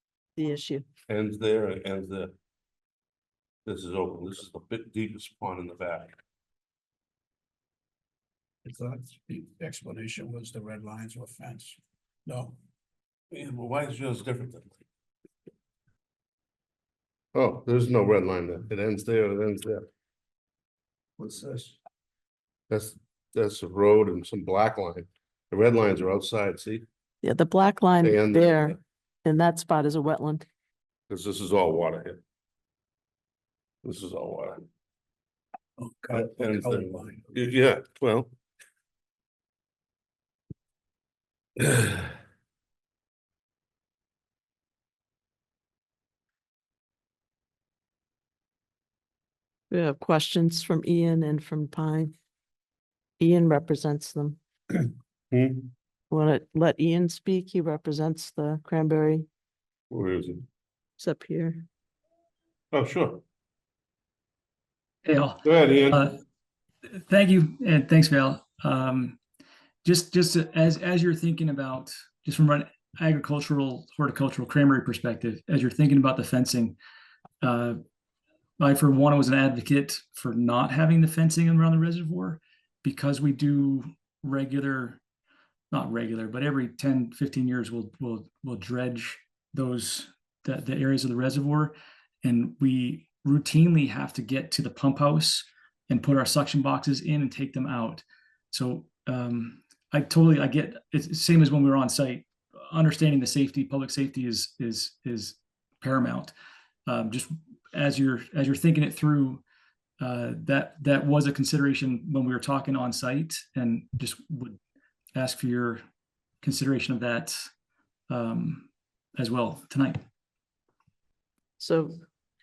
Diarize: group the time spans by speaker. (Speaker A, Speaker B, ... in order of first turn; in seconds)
Speaker A: 0.3-0.8, 27.2-30.4, 49.7-52.1, 53.2-54.4, 56.1-59.3, 61.0-61.6, 121.6-122.0
Speaker B: 1.1-2.3, 3.6-6.2, 13.3-14.8, 17.3-19.8, 22.7-26.8, 28.0-28.8, 31.1-32.2, 33.8-34.6, 36.1-38.3, 41.6-42.1, 55.3-55.7, 59.9-60.4, 62.7-63.2, 65.4-66.1
Speaker C: 8.6-12.6, 21.2-21.8, 35.8-37.2
Speaker D: 65.0-66.2, 66.9-69.2, 69.8-76.8, 77.4-77.8, 78.6-85.0, 85.7-106.3, 106.8-109.4, 110.0-114.6, 115.1-115.8, 116.4-117.5, 118.1-120.0